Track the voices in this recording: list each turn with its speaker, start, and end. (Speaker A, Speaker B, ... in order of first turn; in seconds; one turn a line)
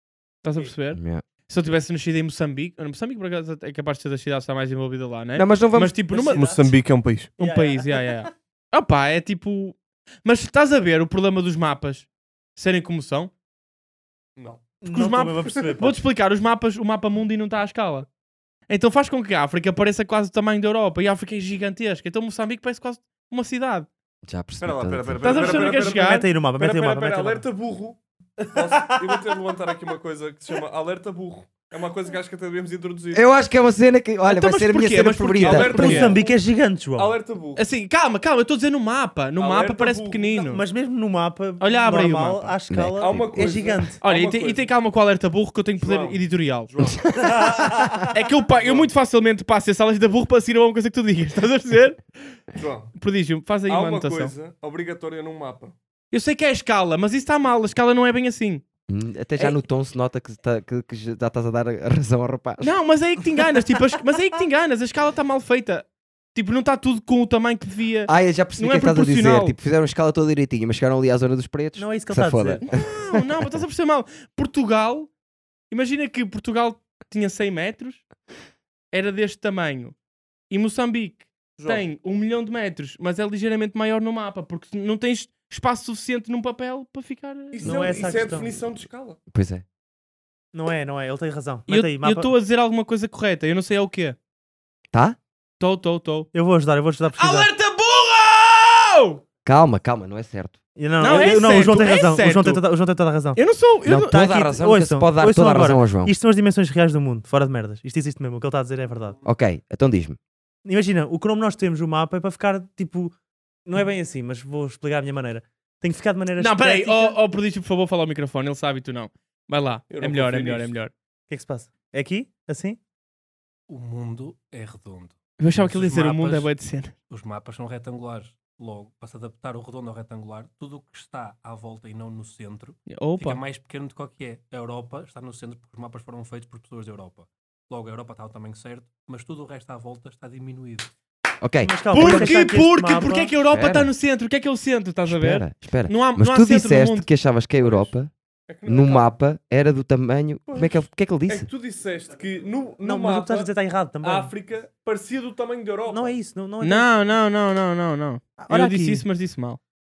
Speaker A: 0.4-6.5
Speaker B: 0.9-1.2
Speaker B: 5.3-6.0
Speaker C: 6.1-6.8
Speaker D: 6.3-7.3
Speaker C: 7.4-8.1
Speaker A: 7.4-13.3
Speaker D: 14.4-14.7
Speaker C: 14.8-15.9
Speaker A: 14.9-18.1
Speaker A: 18.7-23.9
Speaker B: 24.2-25.5
Speaker D: 24.6-28.0
Speaker A: 25.2-26.3
Speaker C: 25.4-27.4
Speaker D: 28.5-33.2
Speaker C: 28.6-29.4
Speaker B: 33.1-36.0
Speaker A: 34.2-36.2
Speaker D: 35.4-37.6
Speaker C: 35.7-37.2
Speaker A: 37.5-40.6
Speaker D: 39.4-40.5
Speaker C: 40.5-44.0
Speaker A: 41.6-42.5
Speaker B: 42.7-43.5
Speaker D: 42.9-44.7
Speaker A: 44.0-46.7
Speaker D: 45.8-47.8
Speaker B: 47.2-47.5
Speaker C: 47.2-48.0
Speaker A: 48.1-52.0
Speaker D: 48.5-48.9
Speaker D: 52.5-52.9
Speaker A: 53.0-54.3
Speaker D: 53.7-55.7
Speaker A: 56.1-58.6
Speaker B: 58.9-62.7
Speaker A: 62.6-69.5
Speaker B: 68.1-73.6
Speaker C: 71.8-72.6
Speaker A: 72.6-75.1
Speaker A: 75.7-78.0
Speaker A: 78.9-79.9
Speaker A: 80.5-88.1
Speaker C: 81.6-81.8
Speaker D: 87.5-89.2
Speaker C: 87.6-88.5
Speaker B: 89.3-89.6
Speaker C: 90.5-92.3
Speaker A: 91.7-94.2
Speaker B: 94.9-95.2
Speaker A: 95.6-96.3
Speaker C: 96.3-97.5
Speaker A: 97.2-99.2
Speaker B: 99.4-100.6
Speaker C: 100.8-103.4
Speaker A: 101.0-102.6
Speaker A: 103.3-104.2
Speaker B: 103.8-106.1
Speaker C: 104.1-109.2
Speaker B: 109.2-110.2
Speaker C: 110.6-113.1
Speaker C: 113.7-117.2
Speaker A: 116.4-120.9
Speaker D: 119.9-120.7
Speaker C: 121.3-122.8
Speaker E: 123.7-126.5
Speaker A: 125.4-126.9
Speaker E: 127.1-140.9
Speaker A: 132.9-133.4
Speaker B: 141.4-142.4
Speaker C: 141.6-143.3
Speaker A: 141.9-147.1
Speaker B: 143.5-143.9
Speaker B: 145.1-148.1
Speaker D: 147.6-147.9
Speaker D: 148.5-149.1
Speaker B: 148.6-151.5
Speaker D: 150.5-156.2
Speaker C: 152.8-154.3
Speaker C: 155.9-156.9
Speaker A: 156.6-159.6
Speaker C: 158.4-159.0